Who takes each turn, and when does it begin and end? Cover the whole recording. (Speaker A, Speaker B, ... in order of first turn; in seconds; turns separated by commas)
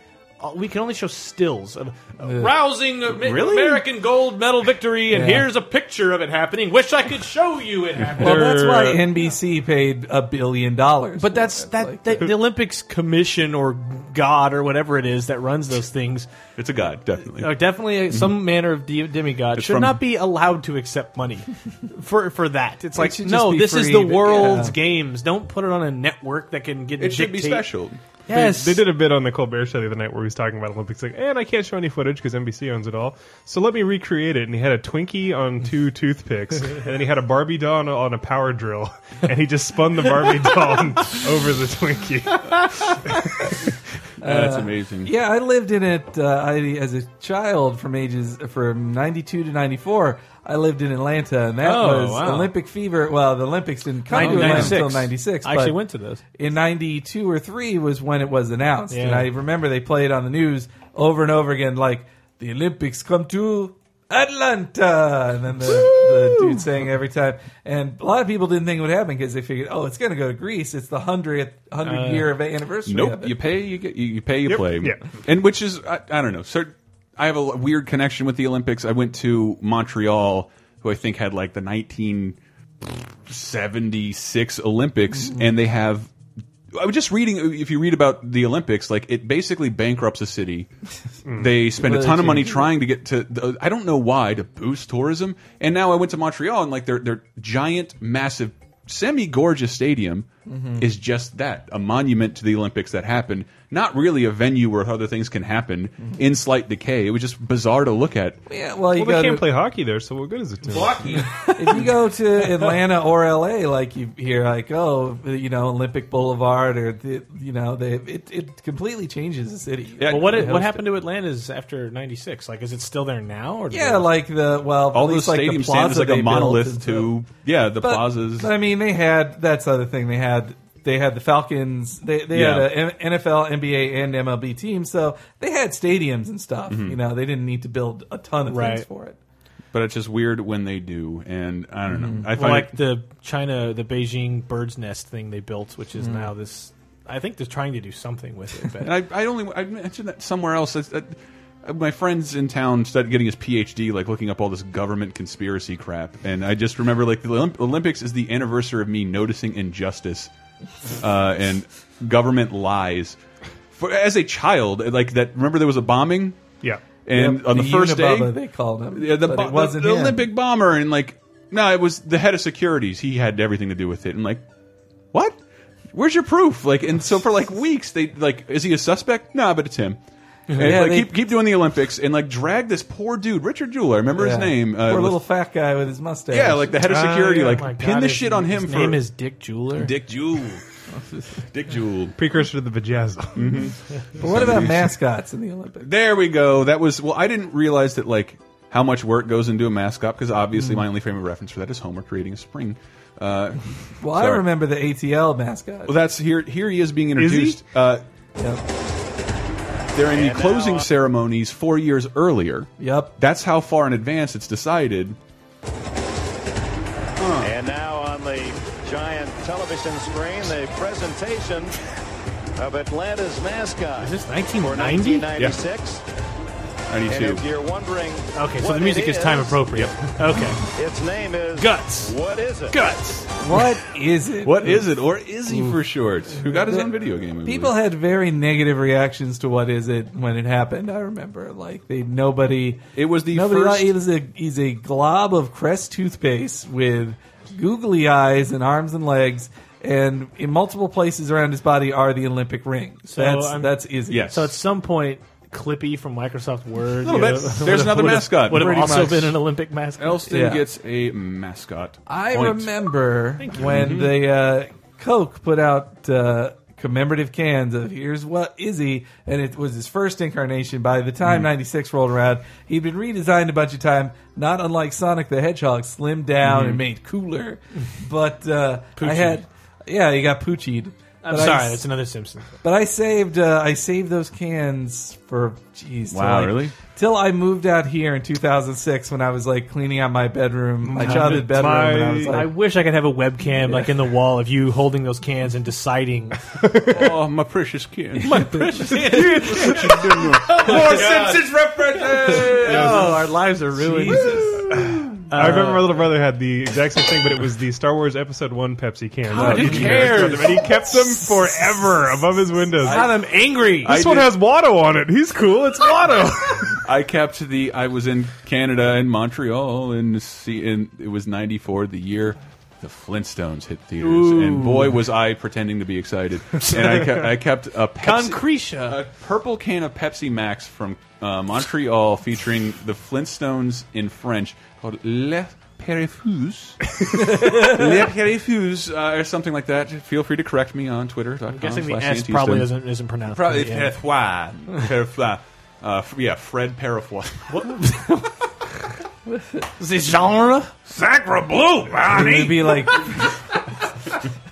Speaker A: 0.4-8.5, Speaker B: 2.2-2.6, Speaker C: 3.2-3.8, Speaker B: 5.1-5.5, Speaker D: 8.2-9.1, Speaker B: 8.2-12.3, Speaker A: 11.2-16.3, Speaker C: 16.6-17.6, Speaker A: 17.4-27.6, Speaker C: 18.1-18.4, Speaker C: 19.6-20.0, Speaker B: 23.0-24.8, Speaker C: 27.0-28.0, Speaker A: 28.3-28.8, Speaker D: 28.3-42.9, Speaker C: 44.2-45.1, Speaker B: 44.2-55.8, Speaker A: 51.6-52.5, Speaker A: 54.1-56.2, Speaker C: 54.2-54.8, Speaker B: 56.4-73.4, Speaker A: 58.9-59.3, Speaker A: 71.8-72.3, Speaker C: 72.9-86.1, Speaker D: 74.5-75.0, Speaker B: 85.1-85.5, Speaker C: 86.7-90.7, Speaker D: 91.3-91.5, Speaker C: 91.4-108.4, Speaker B: 91.8-92.7, Speaker B: 100.5-100.9, Speaker B: 108.5-109.5, Speaker D: 109.0-111.3, Speaker B: 111.5-120.8, Speaker C: 120.0-120.7, Speaker A: 120.1-124.1, Speaker B: 123.7-127.1, Speaker C: 124.9-128.5, Speaker B: 127.8-139.2, Speaker C: 132.3-132.7, Speaker C: 136.7-137.0, Speaker A: 138.5-138.9, Speaker C: 139.7-142.8, Speaker B: 141.9-142.3, Speaker A: 142.3-148.9, Speaker B: 146.0-146.3, Speaker C: 148.8-160.3, Speaker C: 161.0-163.2, Speaker C: 163.8-166.4, Speaker C: 167.1-168.4, Speaker B: 167.1-170.3, Speaker C: 168.9-174.4, Speaker C: 175.9-180.0, Speaker C: 180.6-185.2, Speaker B: 180.6-181.2, Speaker B: 184.1-186.8, Speaker C: 186.3-189.0, Speaker A: 186.8-189.9, Speaker C: 189.8-190.6, Speaker B: 190.9-191.4, Speaker C: 191.5-192.2, Speaker D: 192.2-193.6, Speaker C: 193.4-194.9, Speaker B: 194.2-195.9, Speaker C: 195.8-204.4, Speaker B: 200.6-200.8, Speaker B: 204.0-205.9, Speaker C: 205.9-208.0, Speaker D: 207.2-207.6, Speaker B: 208.4-208.6, Speaker C: 209.9-215.2, Speaker E: 210.1-210.9, Speaker B: 212.8-213.1, Speaker C: 217.2-217.5, Speaker E: 217.4-221.8, Speaker E: 222.6-226.0, Speaker A: 224.0-225.3, Speaker C: 226.9-227.4, Speaker E: 227.1-229.6, Speaker A: 228.3-230.6, Speaker E: 230.8-232.8, Speaker A: 231.6-232.2, Speaker A: 232.7-233.3, Speaker B: 233.4-234.9, Speaker C: 234.4-237.8, Speaker B: 235.5-235.8, Speaker B: 236.4-254.3, Speaker C: 242.9-243.9, Speaker A: 253.1-260.2, Speaker C: 254.1-254.5, Speaker C: 257.0-259.4, Speaker C: 260.0-262.7, Speaker B: 260.3-260.6, Speaker B: 262.1-281.8, Speaker C: 263.6-264.2, Speaker C: 276.4-276.8, Speaker A: 279.0-279.4, Speaker A: 281.2-282.5, Speaker B: 282.6-292.5, Speaker C: 286.1-286.8, Speaker D: 290.9-292.4, Speaker A: 291.0-291.4, Speaker A: 292.3-296.4, Speaker D: 296.6-297.1, Speaker C: 296.9-298.4, Speaker B: 298.2-298.6, Speaker A: 298.2-304.4, Speaker C: 299.1-303.1, Speaker D: 299.1-301.0, Speaker D: 302.7-303.1, Speaker B: 303.8-304.8, Speaker D: 304.7-313.1, Speaker A: 305.3-305.9, Speaker A: 309.3-310.8, Speaker C: 309.4-310.6, Speaker B: 309.4-310.2, Speaker A: 312.8-314.0, Speaker C: 313.8-314.3, Speaker D: 313.8-316.8, Speaker C: 316.8-342.7, Speaker A: 324.0-325.0, Speaker A: 328.0-329.0, Speaker B: 337.4-337.8, Speaker A: 341.5-343.9, Speaker C: 343.3-347.6, Speaker A: 347.5-348.3, Speaker B: 349.3-349.7, Speaker A: 349.8-350.9, Speaker A: 351.6-352.5, Speaker B: 352.1-353.3